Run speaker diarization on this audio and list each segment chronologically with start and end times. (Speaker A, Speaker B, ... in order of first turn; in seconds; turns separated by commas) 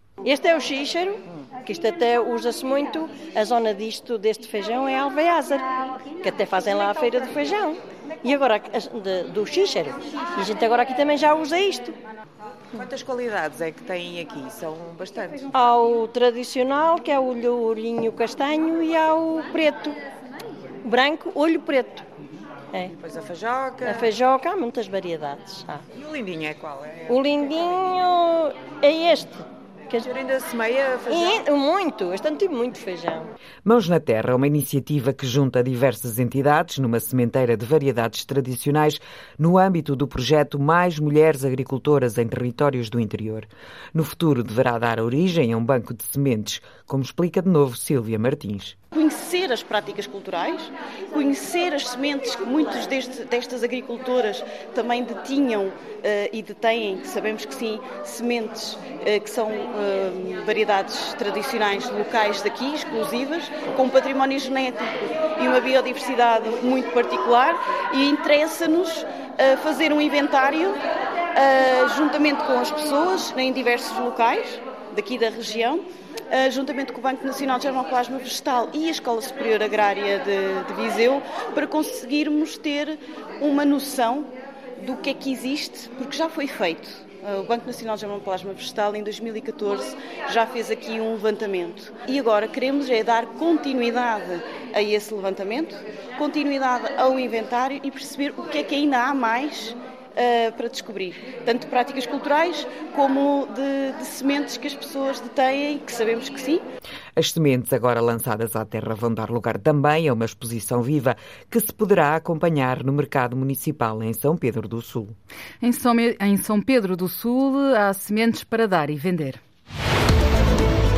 Speaker A: 0.2-5.6, Speaker A: 6.2-12.0, Speaker B: 12.7-15.3, Speaker A: 15.5-19.9, Speaker A: 20.8-22.0, Speaker A: 23.8-25.8, Speaker B: 26.1-26.7, Speaker A: 27.1-30.2, Speaker A: 31.0-33.3, Speaker B: 33.6-48.7, Speaker C: 48.9-70.8, Speaker C: 71.3-106.6, Speaker B: 107.2-115.2, Speaker D: 115.6-119.4